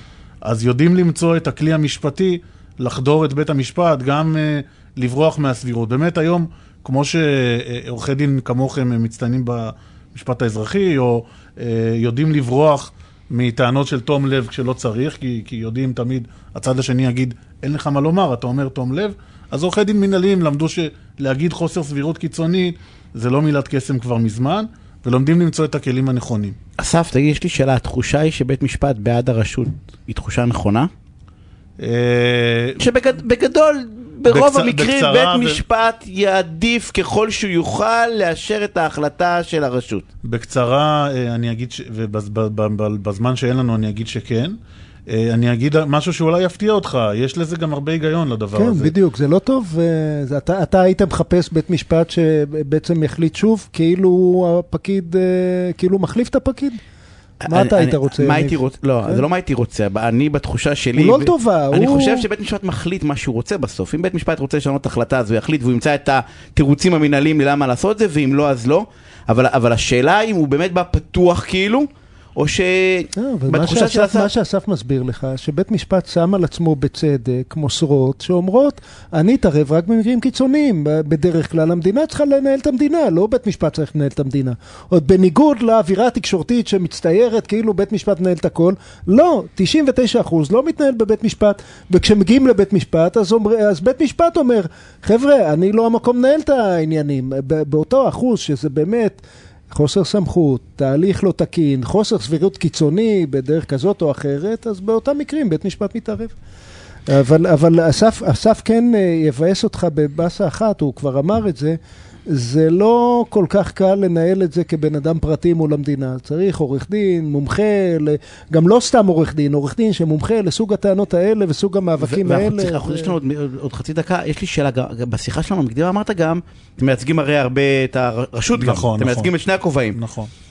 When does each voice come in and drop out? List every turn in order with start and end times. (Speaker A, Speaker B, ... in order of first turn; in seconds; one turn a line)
Speaker A: 0.4-26.6
Speaker B: 26.8-30.9
Speaker A: 31.8-32.8
Speaker B: 32.8-40.0
Speaker A: 34.2-35.6
Speaker A: 40.2-44.5
Speaker A: 45.1-48.9
Speaker C: 48.5-56.8
Speaker B: 57.4-74.3
Speaker C: 57.5-59.2
Speaker C: 60.9-62.3
Speaker C: 73.2-106.3
Speaker C: 107.1-111.8
Speaker C: 112.3-123.2
Speaker B: 122.0-130.0
Speaker A: 128.5-129.3
Speaker A: 129.9-130.3